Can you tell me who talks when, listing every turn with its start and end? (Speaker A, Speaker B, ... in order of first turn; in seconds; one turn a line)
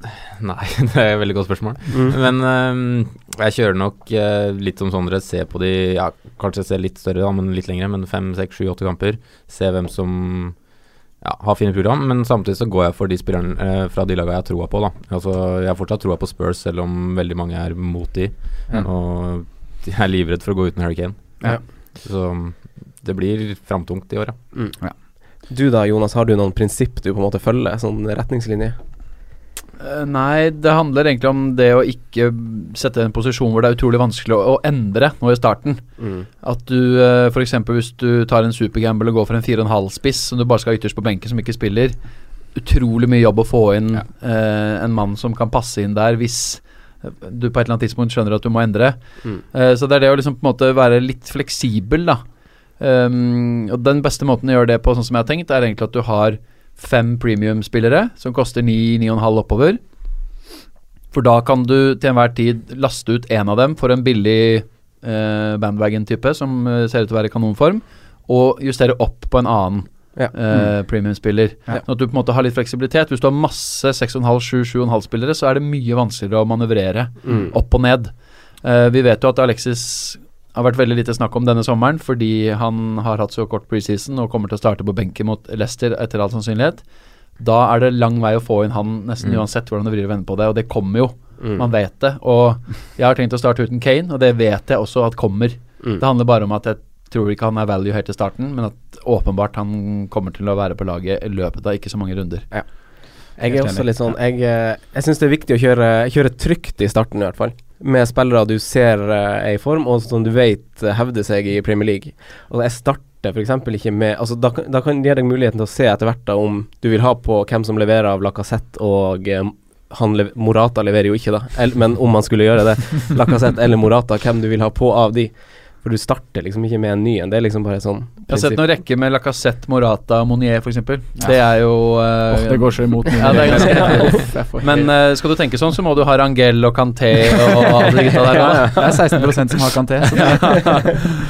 Speaker A: 0.4-10.6
Speaker B: 1.9-2.1
Speaker A: 11.2-21.4
Speaker A: 22.0-24.4
Speaker B: 25.5-28.8
Speaker C: 29.8-35.8
Speaker B: 36.0-36.3
Speaker C: 36.4-42.0
Speaker C: 42.5-52.2
Speaker C: 52.8-59.8
Speaker C: 61.1-86.8
Speaker D: 70.5-70.7
Speaker B: 77.2-77.5
Speaker C: 87.4-102.5
Speaker B: 103.4-128.6
Speaker D: 103.4-103.9
Speaker C: 128.3-139.0
Speaker D: 132.3-134.9
Speaker B: 133.4-134.2
Speaker D: 138.1-141.1
Speaker C: 140.1-140.9